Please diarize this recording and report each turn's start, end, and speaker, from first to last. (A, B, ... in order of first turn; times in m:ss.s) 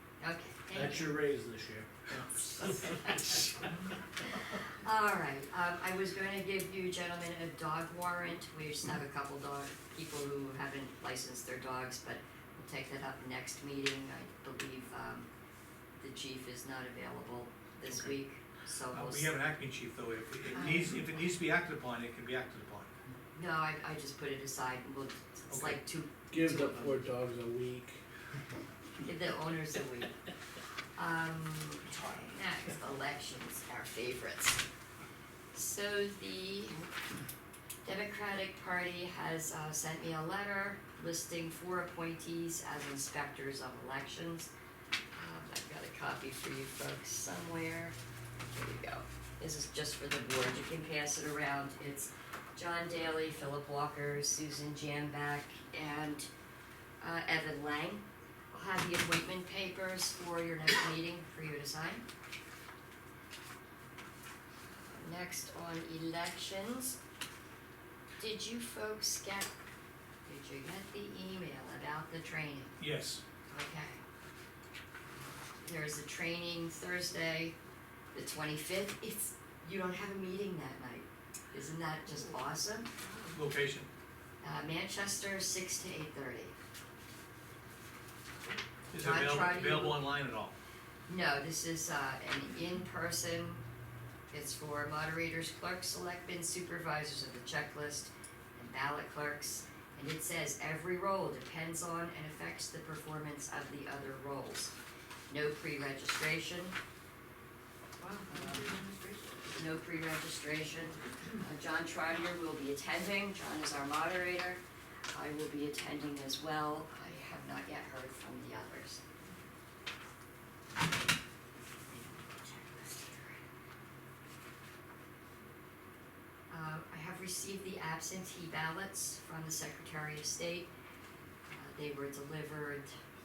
0:00.2-0:01.1 A
0:00.7-0:03.2 B
0:04.4-0:15.3 A
0:16.0-0:19.3 A
0:18.9-0:22.9 C
0:20.5-0:21.1 A
0:23.3-0:27.0 A
0:25.5-0:25.8 C
0:26.3-0:28.0 B
0:28.9-0:30.2 A
0:31.0-0:34.6 A
0:35.5-0:36.8 A
0:37.8-0:44.5 A
0:45.1-0:56.3 A
0:57.0-1:02.0 A
1:04.7-1:07.0 A
1:08.2-1:09.5 A
1:10.2-1:12.8 A
1:12.8-1:13.2 C
1:13.5-1:14.0 A
1:15.3-1:17.5 A
1:18.1-1:22.9 A
1:22.1-1:22.4 D
1:23.0-1:23.4 D
1:23.3-1:23.9 C
1:24.4-1:26.5 A
1:28.9-1:30.5 C
1:29.0-1:30.0 A
1:31.1-1:33.6 A
1:34.3-1:44.7 A
1:45.3-1:46.8 A
1:48.0-1:49.6 D
1:48.3-1:48.7 A
1:49.5-1:59.0 A
2:01.9-2:03.4 A
2:06.5-2:10.7 A
2:11.5-2:12.9 A